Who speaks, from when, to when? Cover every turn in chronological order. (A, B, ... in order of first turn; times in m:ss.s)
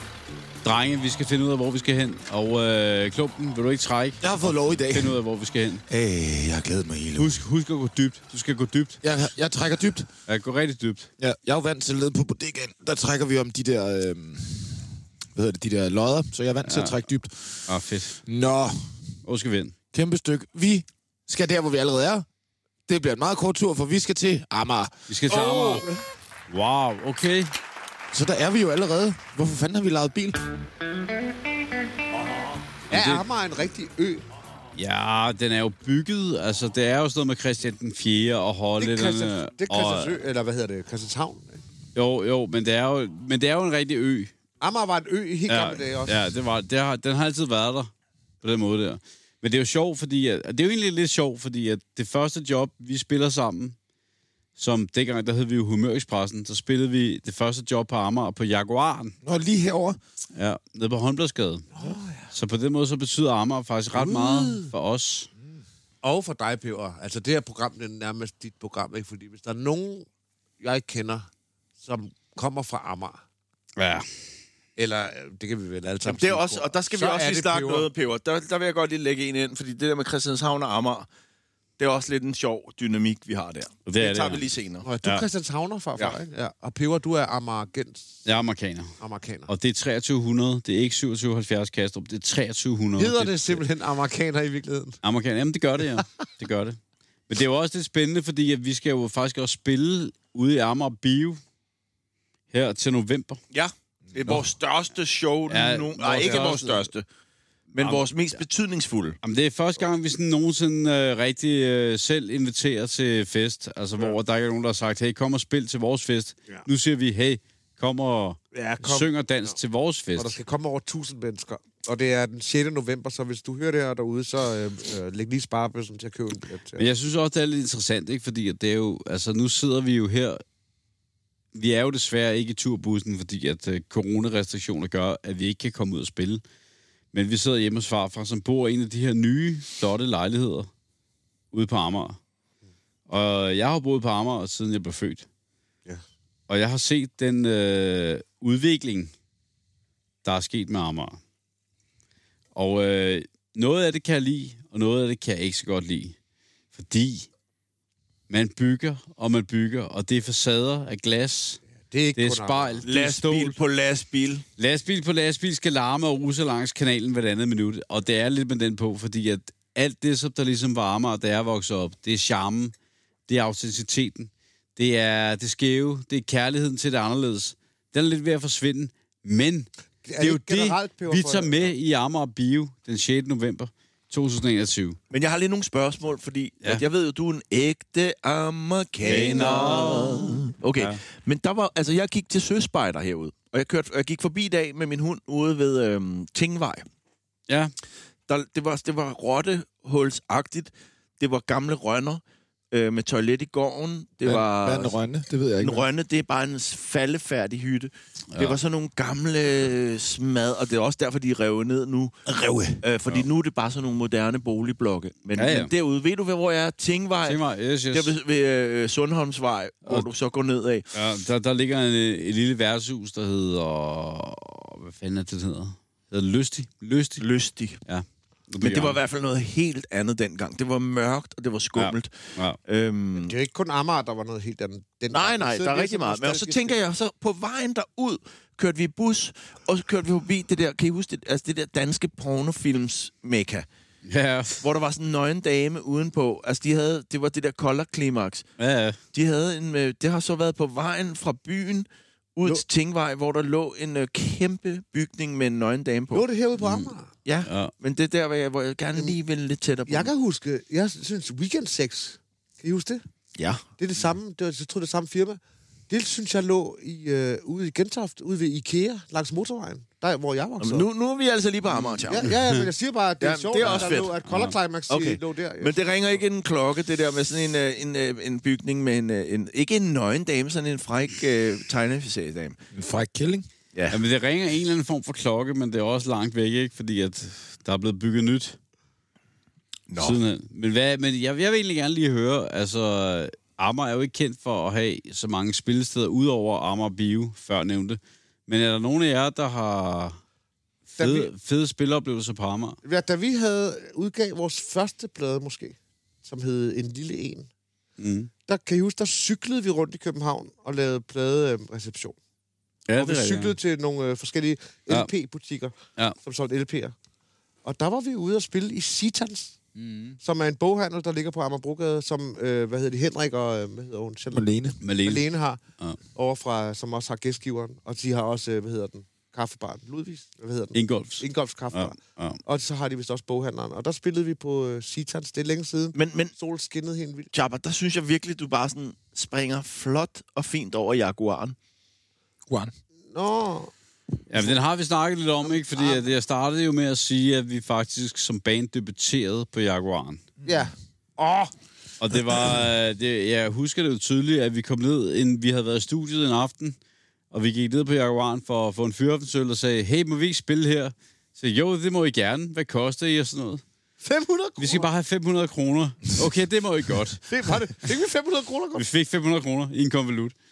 0:00.6-0:05.8 A
0:04.2-0:05.2 B
0:05.9-0:07.4 B
0:07.2-0:09.0 A
0:09.0-0:10.1 B
0:10.3-0:11.1 A
0:11.2-0:17.7 B
0:16.6-0:17.0 A
0:17.7-0:18.2 A
0:18.2-0:18.7 B
0:19.2-0:19.7 A
0:19.9-0:22.2 B
0:22.9-0:24.9 B
0:25.1-0:25.9 A
0:25.3-0:26.0 C
0:26.5-0:27.5 A
0:28.1-0:30.4 B
0:32.9-0:33.2 A
0:32.9-0:34.2 C
0:34.8-0:40.2 A
0:38.8-0:41.6 C
0:41.9-0:44.3 A
0:44.6-0:46.2 C
0:45.5-0:47.9 A
0:48.4-0:53.8 A
0:54.6-0:59.1 A
0:59.2-1:00.0 B
1:00.3-1:05.3 A
1:01.7-1:02.3 C
1:03.9-1:04.7 C
1:06.0-1:10.1 C
1:10.6-1:11.3 C
1:11.8-1:13.2 C
1:13.8-1:14.0 A
1:14.8-1:17.9 C
1:16.0-1:21.1 D
1:21.8-1:24.8 D
1:23.9-1:24.4 A
1:24.8-1:28.2 C
1:28.2-1:29.0 A
1:29.0-1:29.5 C
1:29.5-1:33.6 A
1:33.0-1:35.0 C
1:35.0-1:36.8 A
1:37.3-1:41.4 A
1:42.5-1:43.4 A
1:43.5-1:47.1 D
1:44.1-1:44.5 B
1:45.5-1:46.9 A
1:46.2-1:46.5 C
1:47.7-1:48.4 A
1:47.7-1:49.2 D
1:49.2-2:00.4 A
1:58.5-1:59.5 C
2:00.2-2:06.8 C
2:06.8-2:10.4 A
2:11.5-2:16.4 A
2:17.1-2:20.7 A
2:21.5-2:22.2 A
2:23.1-2:25.3 A
2:26.5-2:29.1 A
2:30.2-2:31.2 A
2:32.5-2:36.2 A
2:36.7-2:37.3 A
2:38.3-2:41.6 A
2:41.9-2:42.8 C
2:42.2-2:43.6 A
2:42.8-2:44.4 D
2:44.6-2:52.7 A
2:53.3-3:05.0 A
3:00.0-3:01.7 C
3:05.1-3:16.8 D
3:09.0-3:10.0 C
3:09.0-3:11.0 A
3:17.5-3:17.7 A
3:18.3-3:24.9 D
3:24.2-3:25.9 B
3:25.6-3:32.2 D
3:28.3-3:28.6 A
3:32.2-3:32.8 B
3:32.8-3:37.4 D
3:35.4-3:35.7 A
3:37.2-3:38.2 A
3:37.9-3:40.8 D
3:40.9-3:47.2 A
3:47.2-3:47.8 D
3:47.8-3:49.0 A
3:48.6-3:52.1 D
3:51.8-3:52.6 A
3:52.6-3:53.3 D
3:53.2-3:56.8 C
3:55.1-4:03.6 D
4:04.0-4:04.6 A
4:04.6-4:08.4 D
4:08.6-4:09.0 A
4:09.1-4:16.2 D
4:16.1-4:17.1 C
4:16.6-4:16.9 A
4:17.2-4:20.1 D
4:17.4-4:17.7 A
4:19.9-4:23.0 C
4:23.4-4:23.6 D
4:23.8-4:30.9 C
4:30.6-4:32.3 D
4:32.1-4:36.2 C
4:33.2-4:34.1 D
4:33.6-4:34.5 A
4:34.9-4:42.6 D
4:42.7-4:43.5 B
4:43.7-4:44.0 D
4:43.9-4:48.6 A
4:49.9-4:50.2 D
4:50.0-5:00.2 A
5:01.0-5:02.8 A
5:01.0-5:01.3 C
5:02.8-5:07.5 C
5:08.0-5:08.3 A
5:08.5-5:12.2 C
5:12.9-5:13.5 A
5:13.0-5:16.9 C
5:17.6-5:19.6 C
5:19.8-5:20.2 A
5:20.2-5:24.5 C
5:24.3-5:24.8 B
5:24.8-5:25.2 A
5:25.0-5:25.6 C
5:26.1-5:37.3 C
5:30.7-5:32.4 A
5:35.9-5:36.3 D
5:37.3-5:41.6 D
5:42.5-5:42.7 B
5:43.1-5:43.7 C
5:44.3-5:50.2 A
5:45.4-5:46.1 C
5:50.4-5:51.5 C
5:52.0-5:56.8 A
5:57.3-6:03.6 A
6:04.0-6:04.9 C
6:04.6-6:07.2 A
6:07.3-6:08.8 C
6:08.7-6:10.3 A